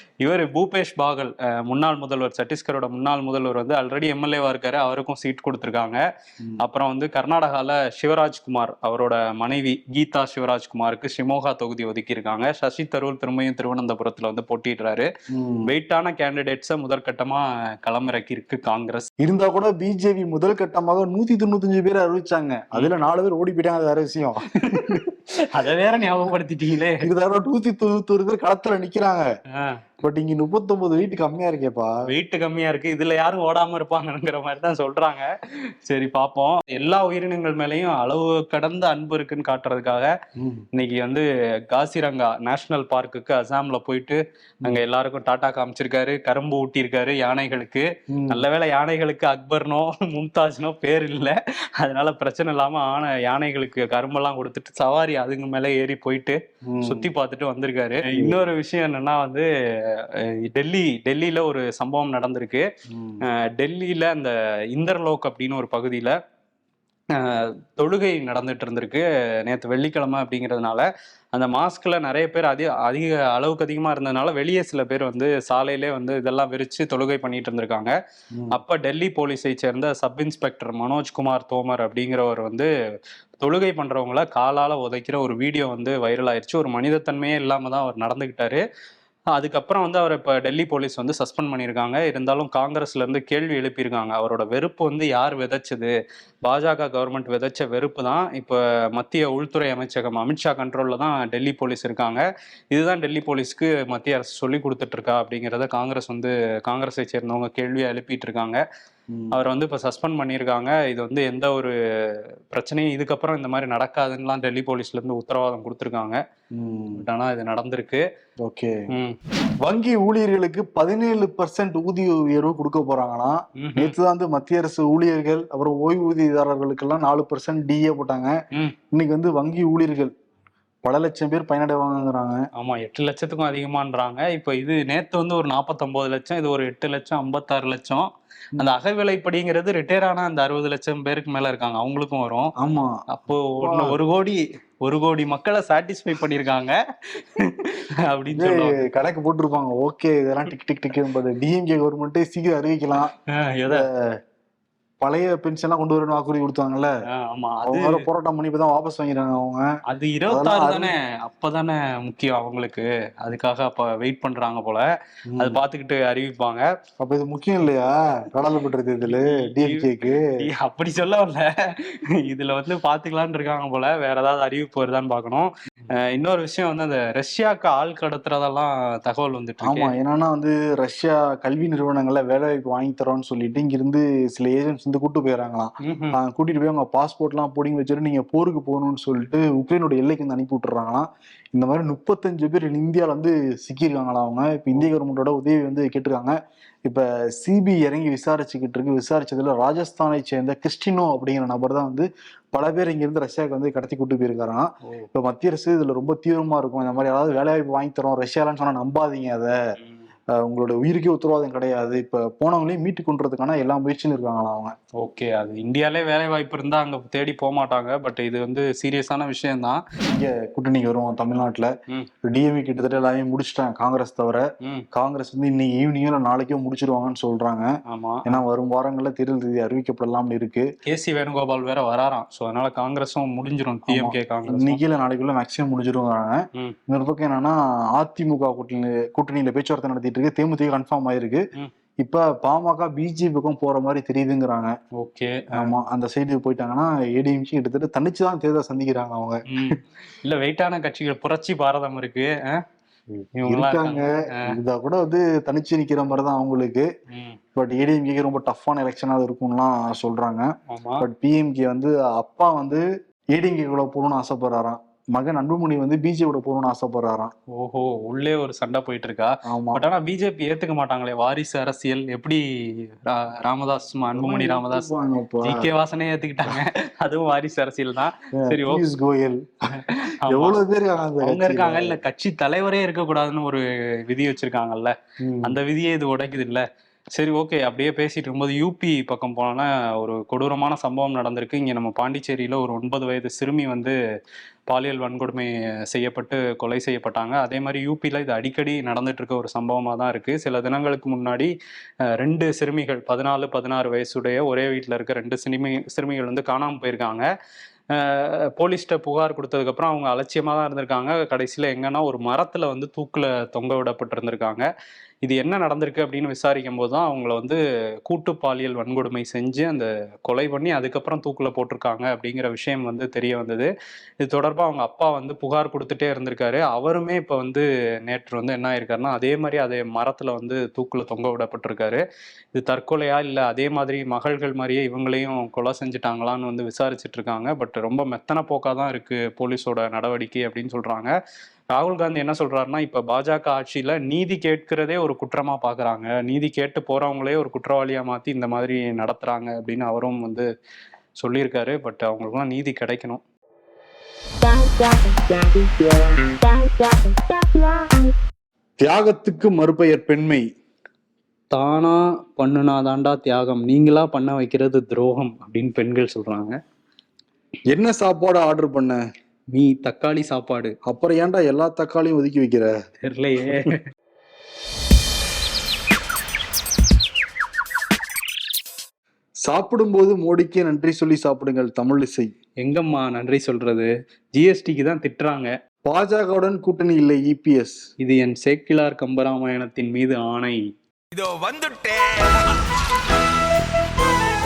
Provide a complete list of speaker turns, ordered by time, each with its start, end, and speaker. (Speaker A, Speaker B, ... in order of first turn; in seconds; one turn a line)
Speaker A: 0.2-6.0
Speaker A: 6.6-15.1
Speaker B: 15.3-15.7
Speaker A: 15.7-19.1
Speaker B: 19.2-25.1
Speaker A: 24.5-27.0
Speaker B: 27.0-29.3
Speaker A: 29.5-29.8
Speaker B: 30.0-31.9
Speaker A: 32.1-35.3
Speaker A: 35.8-40.1
Speaker B: 40.4-40.6
Speaker A: 40.8-62.7
Speaker B: 48.1-48.5
Speaker B: 56.7-57.1
Speaker B: 58.1-58.4
Speaker B: 62.9-63.2
Speaker A: 63.2-66.2
Speaker A: 67.1-77.9
Speaker A: 78.5-82.7
Speaker A: 83.4-88.6
Speaker A: 89.3-108.6
Speaker B: 109.1-109.4
Speaker A: 109.3-116.2
Speaker B: 116.5-117.0
Speaker A: 117.0-118.0
Speaker B: 118.4-118.8
Speaker A: 118.9-119.2
Speaker B: 119.6-128.3
Speaker A: 123.6-124.0
Speaker B: 128.9-130.1
Speaker B: 130.8-132.4
Speaker A: 132.6-138.1
Speaker A: 138.6-142.5
Speaker B: 142.6-143.0
Speaker A: 143.1-148.8
Speaker B: 143.6-144.0
Speaker B: 148.3-153.1
Speaker A: 153.3-153.8
Speaker B: 153.7-154.1
Speaker B: 155.0-156.9
Speaker A: 157.1-158.0
Speaker B: 157.6-159.7
Speaker A: 159.9-164.9
Speaker B: 160.3-160.9
Speaker B: 165.3-165.6
Speaker A: 165.4-166.7
Speaker B: 167.0-170.3
Speaker A: 169.0-179.9
Speaker B: 179.6-209.6
Speaker A: 185.8-186.2
Speaker B: 210.3-214.8
Speaker A: 215.0-219.8
Speaker B: 220.1-221.7
Speaker B: 222.2-227.7
Speaker A: 227.9-228.4
Speaker B: 228.3-230.7
Speaker A: 230.8-234.8
Speaker B: 233.9-241.5
Speaker B: 242.0-244.8
Speaker A: 245.0-245.8
Speaker B: 245.6-249.6
Speaker A: 249.5-252.6
Speaker B: 253.2-256.9
Speaker A: 253.4-254.5
Speaker A: 257.1-257.4
Speaker B: 257.6-260.5
Speaker A: 260.7-261.0
Speaker B: 261.0-267.3
Speaker A: 267.5-274.9
Speaker B: 269.5-269.8
Speaker B: 274.1-275.7
Speaker A: 275.4-278.9
Speaker B: 278.3-279.4
Speaker A: 279.7-280.6
Speaker B: 280.3-282.0
Speaker A: 281.2-293.9
Speaker B: 285.2-285.6
Speaker A: 294.7-301.5
Speaker A: 302.2-307.3
Speaker A: 307.9-314.7
Speaker A: 315.2-323.7
Speaker A: 324.2-332.0
Speaker A: 332.5-341.1
Speaker A: 341.7-350.5
Speaker A: 351.2-353.2
Speaker C: 354.5-355.7
Speaker C: 356.5-357.2
Speaker B: 358.8-360.4
Speaker A: 361.5-366.6
Speaker B: 367.7-369.0
Speaker A: 369.5-370.8
Speaker B: 370.9-372.7
Speaker A: 373.0-373.8
Speaker B: 379.4-382.3
Speaker A: 382.6-385.5
Speaker B: 385.9-387.8
Speaker A: 388.0-390.7
Speaker C: 391.1-392.0